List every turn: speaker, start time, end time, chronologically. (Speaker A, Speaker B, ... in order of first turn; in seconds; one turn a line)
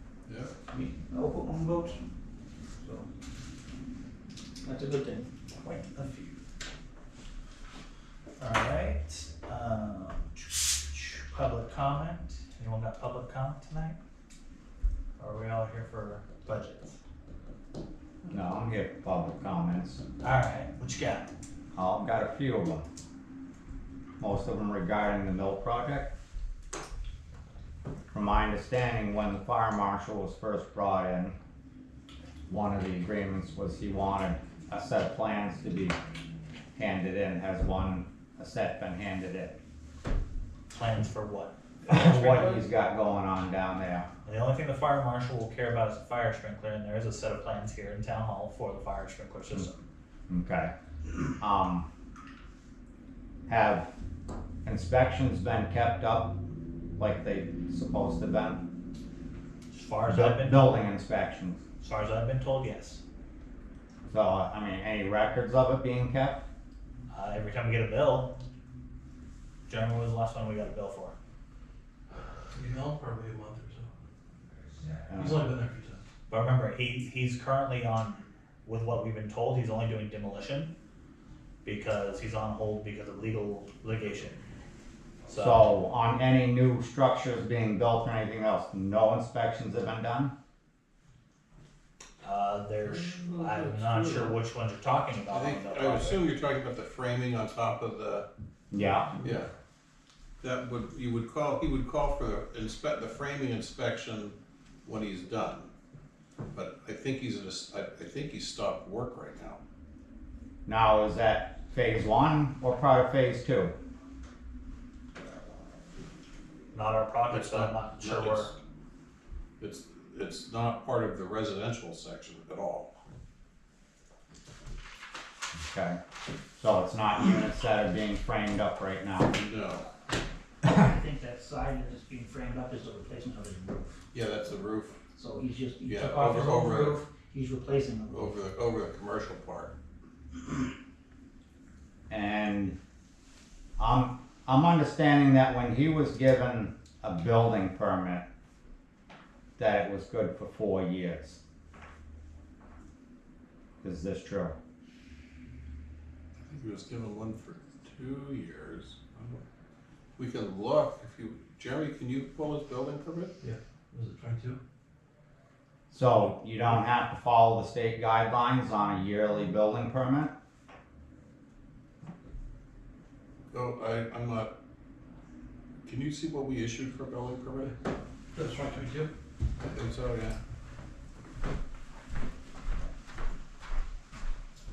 Speaker A: 0.3-0.5
Speaker B: 0.7-2.0
Speaker B: 2.8-3.1
Speaker B: 4.6-5.3
Speaker C: 5.6-6.4
Speaker C: 8.4-14.0
Speaker C: 15.2-17.0
Speaker D: 18.2-20.0
Speaker C: 20.2-21.3
Speaker D: 21.7-22.9
Speaker D: 24.2-26.1
Speaker D: 28.1-31.4
Speaker D: 32.5-36.0
Speaker D: 36.8-39.6
Speaker C: 40.7-42.6
Speaker D: 41.9-44.1
Speaker C: 44.2-49.8
Speaker D: 50.3-50.7
Speaker D: 51.4-51.9
Speaker D: 53.5-53.9
Speaker D: 54.6-56.4
Speaker D: 57.0-58.6
Speaker C: 59.7-60.6
Speaker D: 60.0-61.6
Speaker C: 61.8-63.0
Speaker D: 64.1-66.4
Speaker C: 67.1-68.3
Speaker C: 69.7-71.1
Speaker E: 72.5-73.9
Speaker E: 75.1-76.0
Speaker D: 75.1-75.4
Speaker C: 76.3-80.7
Speaker C: 81.6-84.4
Speaker C: 85.3-85.7
Speaker D: 85.3-90.3
Speaker C: 92.2-96.2
Speaker A: 92.8-94.3
Speaker A: 95.3-98.2
Speaker D: 98.7-99.2
Speaker A: 99.2-99.5
Speaker A: 100.4-105.7
Speaker A: 106.5-109.6
Speaker D: 110.7-113.7
Speaker C: 116.7-118.5
Speaker A: 117.3-118.5
Speaker A: 119.6-122.9
Speaker D: 125.6-126.0
Speaker D: 126.6-129.3
Speaker A: 129.3-129.9
Speaker B: 130.6-134.0
Speaker A: 134.1-135.0
Speaker B: 135.1-138.3
Speaker A: 135.8-137.0
Speaker A: 138.1-139.7
Speaker D: 142.1-142.8
Speaker D: 143.8-148.2
Speaker D: 149.6-151.4
Speaker D: 153.8-154.6
Speaker A: 156.4-159.4
Speaker A: 160.2-163.3
Speaker E: 163.4-164.6
Speaker D: 165.9-170.3
Speaker A: 173.5-174.5
Speaker A: 175.8-177.7
Speaker E: 178.3-179.1
Speaker A: 179.6-180.4